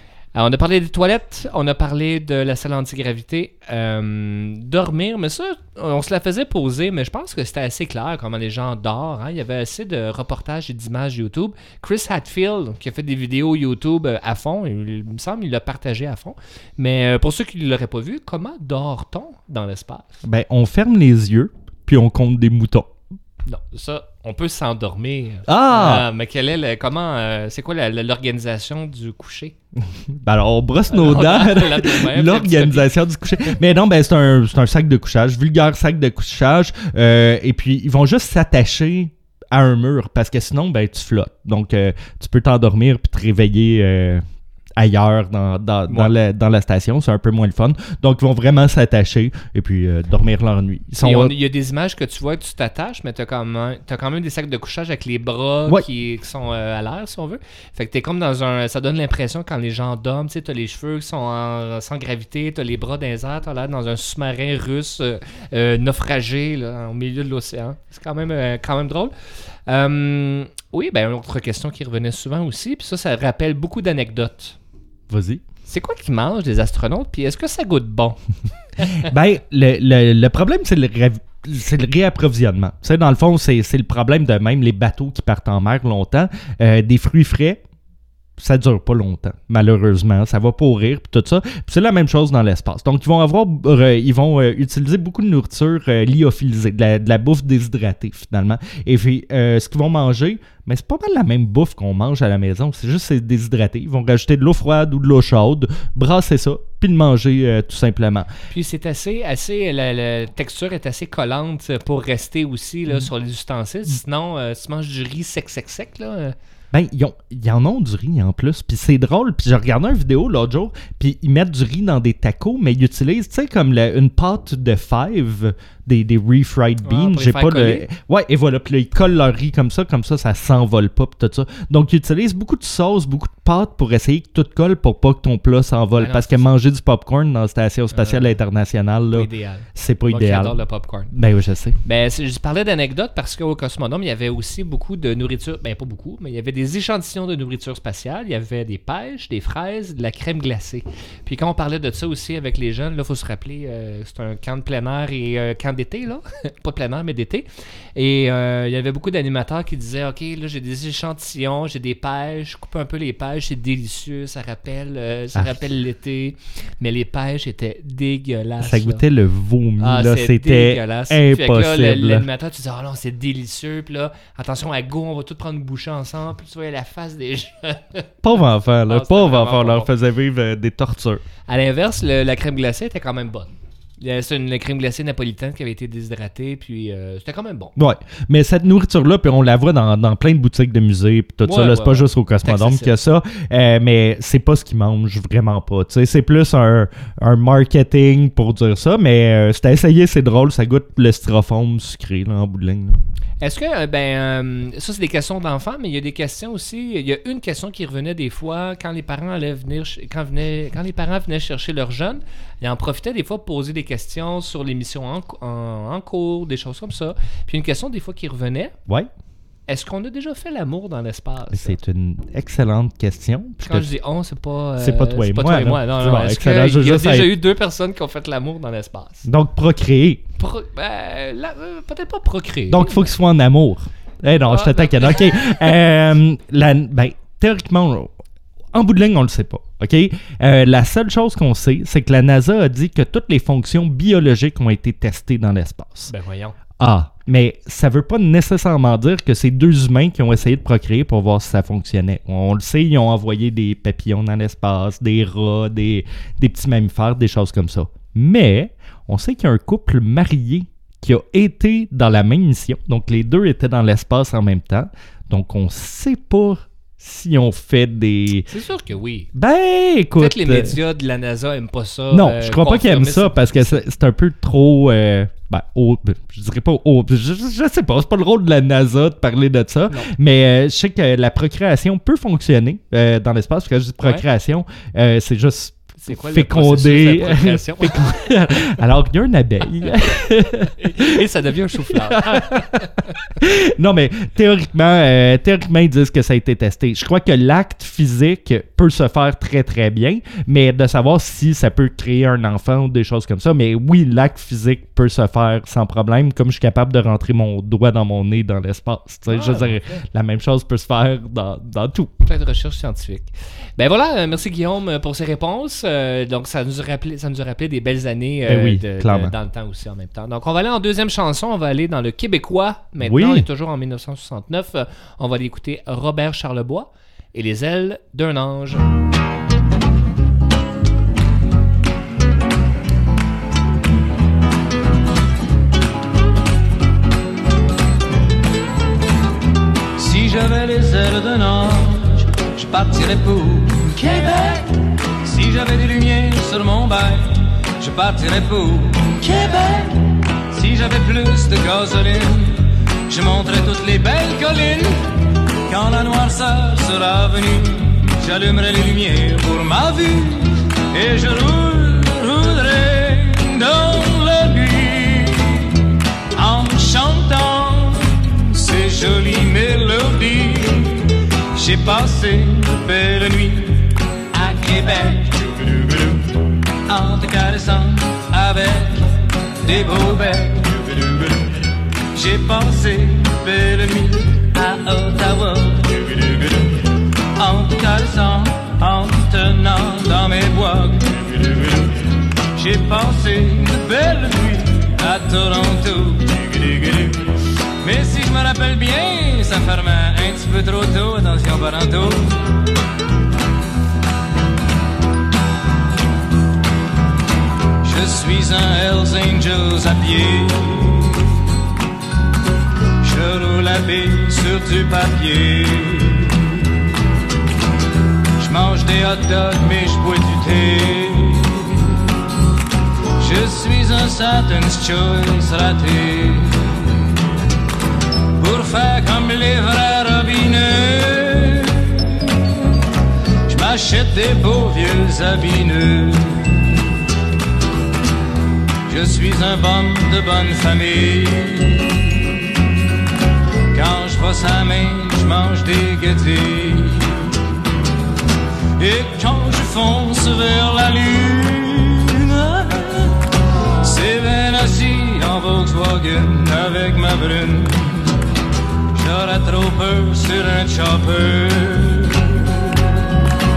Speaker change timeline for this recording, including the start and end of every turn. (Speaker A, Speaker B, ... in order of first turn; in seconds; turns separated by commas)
Speaker A: 0.3-20.1, Speaker B: 20.2-22.9, Speaker A: 23.5-29.5, Speaker B: 25.5-26.1, Speaker B: 29.9-44.2, Speaker A: 30.9-32.9, Speaker B: 44.8-51.4, Speaker A: 45.9-46.1, Speaker A: 51.0-69.1, Speaker A: 69.7-74.6, Speaker B: 75.1-75.4, Speaker A: 75.7-78.2, Speaker A: 78.8-79.1, Speaker B: 79.0-87.6, Speaker B: 88.4-108.3, Speaker A: 108.5-116.4, Speaker B: 116.7-141.8, Speaker A: 126.8-127.9, Speaker A: 135.9-136.4, Speaker A: 137.9-138.3, Speaker A: 139.1-141.1, Speaker A: 141.8-169.0, Speaker B: 165.3-165.6, Speaker B: 168.6-172.3, Speaker A: 169.8-178.1, Speaker B: 178.2-181.2, Speaker A: 178.9-179.9, Speaker A: 181.5-187.7, Speaker B: 187.8-203.0, Speaker A: 191.4-192.9, Speaker A: 203.4-218.7, Speaker A: 219.7-221.8, Speaker B: 221.5-223.9, Speaker A: 223.6-229.3, Speaker B: 224.8-227.3, Speaker B: 229.2-230.2, Speaker A: 230.4-233.1, Speaker B: 232.7-238.1, Speaker A: 234.5-235.7, Speaker B: 238.7-246.1, Speaker A: 246.1-246.6, Speaker B: 246.8-268.5, Speaker A: 268.5-269.3, Speaker B: 269.3-270.8, Speaker A: 270.2-273.8, Speaker B: 272.1-291.2, Speaker A: 286.0-288.0, Speaker A: 290.8-293.1, Speaker B: 291.9-312.1, Speaker A: 309.3-310.0, Speaker A: 312.2-328.9, Speaker B: 318.5-319.4, Speaker B: 323.0-323.5, Speaker C: 340.0-355.0, Speaker C: 355.7-376.2, Speaker C: 376.9-379.1, Speaker C: 379.6-381.4, Speaker C: 382.1-386.7, Speaker C: 387.4-391.9, Speaker C: 392.6-402.5, Speaker C: 407.8-411.3, Speaker C: 413.0-416.6, Speaker C: 418.4-422.0, Speaker C: 423.2-427.1, Speaker C: 428.4-432.4, Speaker C: 433.5-436.8, Speaker C: 438.9-442.5, Speaker C: 443.7-447.3, Speaker C: 448.8-453.2, Speaker C: 453.8-458.2, Speaker C: 458.9-462.7